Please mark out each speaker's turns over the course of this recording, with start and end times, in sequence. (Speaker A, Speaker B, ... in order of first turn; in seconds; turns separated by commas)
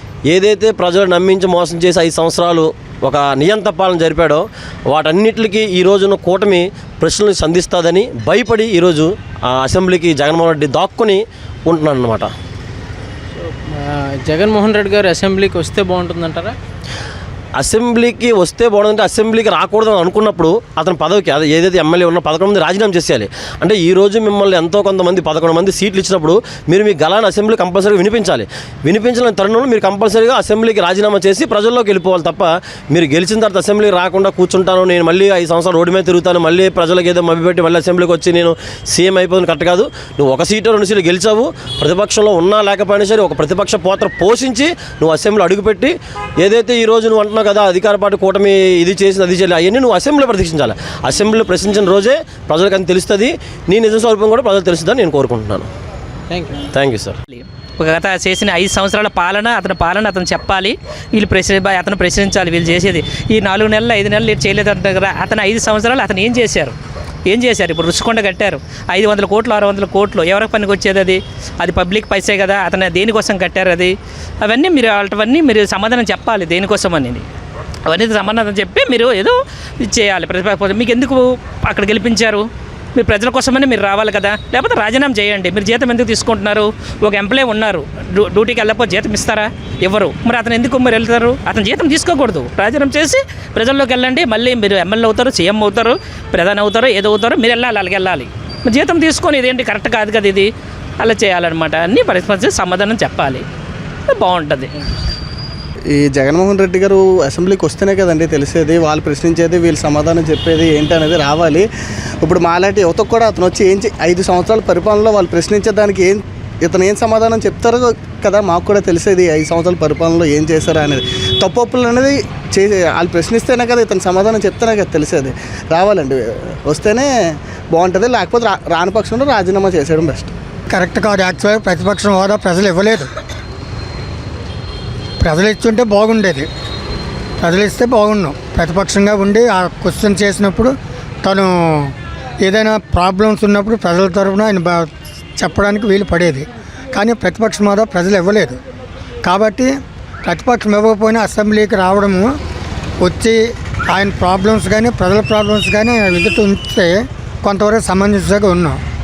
Speaker A: 0.3-12.3, Speaker B: 13.4-16.6, Speaker A: 17.6-55.7, Speaker B: 56.3-56.6, Speaker A: 56.7-57.2, Speaker C: 57.3-66.7, Speaker C: 67.3-77.2, Speaker C: 77.9-103.4, Speaker C: 104.1-104.7, Speaker D: 105.9-111.7, Speaker D: 112.2-127.1, Speaker D: 127.7-130.3, Speaker E: 130.7-133.1, Speaker E: 135.2-136.5, Speaker E: 137.4-148.6, Speaker E: 149.2-149.7, Speaker E: 150.2-152.3, Speaker E: 153.0-158.8